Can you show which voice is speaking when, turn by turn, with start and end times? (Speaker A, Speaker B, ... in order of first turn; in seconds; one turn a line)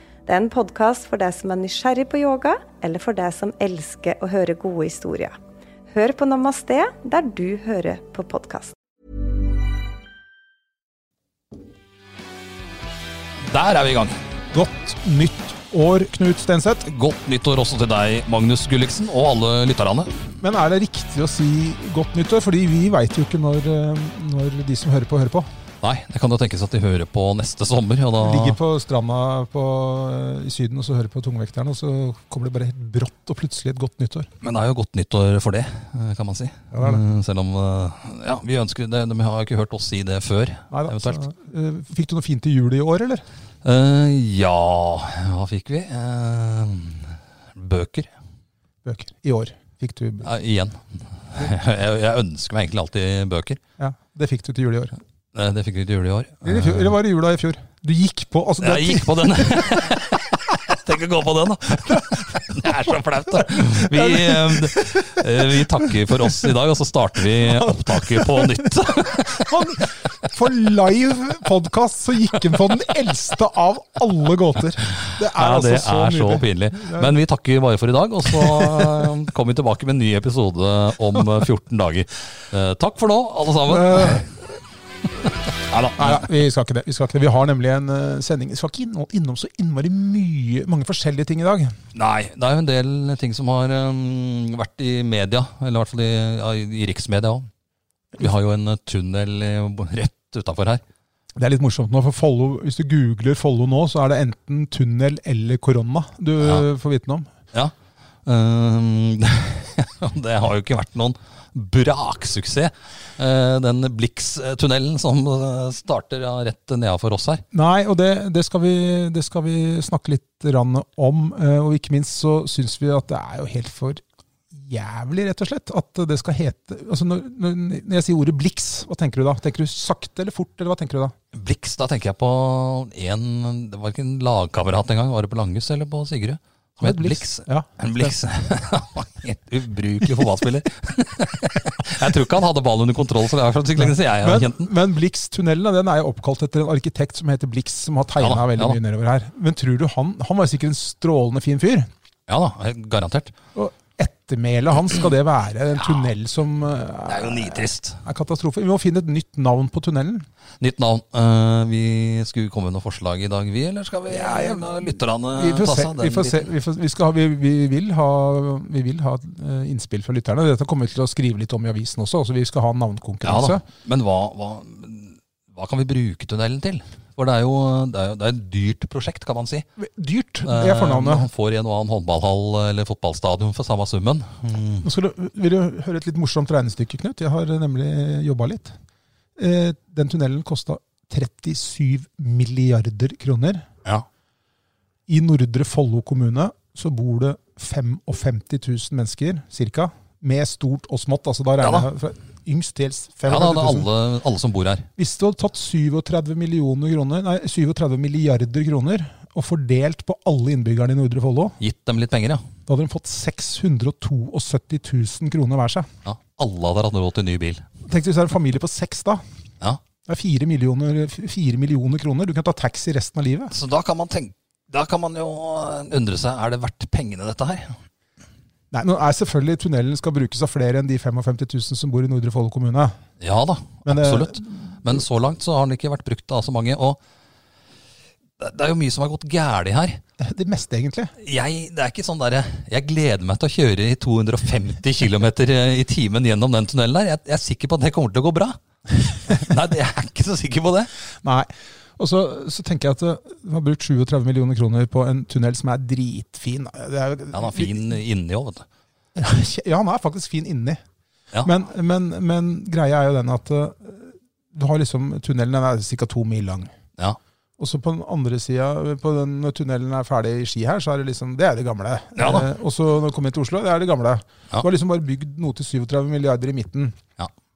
Speaker A: 0.2-5.3
Speaker A: 5.9-8.8
Speaker B: 13.5-14.2
Speaker C: 14.5-16.9
Speaker B: 16.9-20.2
Speaker C: 20.4-25.5
Speaker B: 25.8-28.6
Speaker C: 28.2-34.3
Speaker B: 34.4-41.2
Speaker C: 36.7-37.0
Speaker C: 40.7-43.2
Speaker B: 43.6-48.1
Speaker C: 48.8-50.3
Speaker B: 50.2-53.6
Speaker C: 53.8-54.9
Speaker B: 55.3-56.9
Speaker C: 56.4-59.4
Speaker B: 58.6-69.8
Speaker C: 61.9-66.5
Speaker C: 67.4-77.2
Speaker B: 74.8-84.3
Speaker C: 78.3-78.9
Speaker C: 83.7-84.3
Speaker B: 85.7-86.3
Speaker C: 86.0-91.7
Speaker B: 91.9-97.5
Speaker B: 98.2-100.8
Speaker C: 101.4-107.3
Speaker B: 108.2-117.4
Speaker C: 117.5-131.1
Speaker B: 131.3-144.7
Speaker C: 136.8-138.1
Speaker C: 143.8-151.9
Speaker B: 148.2-148.8
Speaker B: 152.3-153.3
Speaker C: 153.5-160.2
Speaker B: 157.1-158.0
Speaker B: 160.6-166.5
Speaker C: 164.1-173.6
Speaker B: 173.2-179.7
Speaker C: 179.8-181.3
Speaker B: 180.4-184.9
Speaker C: 184.8-188.7
Speaker C: 189.4-193.6
Speaker C: 195.1-203.9
Speaker B: 201.6-201.9
Speaker B: 203.3-204.9
Speaker C: 205.0-211.6
Speaker B: 211.6-212.4
Speaker C: 212.7-215.9
Speaker B: 216.0-217.6
Speaker C: 217.8-219.2
Speaker C: 220.0-223.5
Speaker B: 223.5-227.8
Speaker C: 228.7-232.9
Speaker B: 233.2-237.0
Speaker C: 233.8-234.9
Speaker B: 238.4-240.0
Speaker C: 240.2-241.1
Speaker B: 241.2-250.9
Speaker C: 251.2-257.8
Speaker B: 257.3-258.6
Speaker C: 259.1-260.8
Speaker C: 261.4-266.7
Speaker C: 267.6-277.0
Speaker B: 272.1-272.5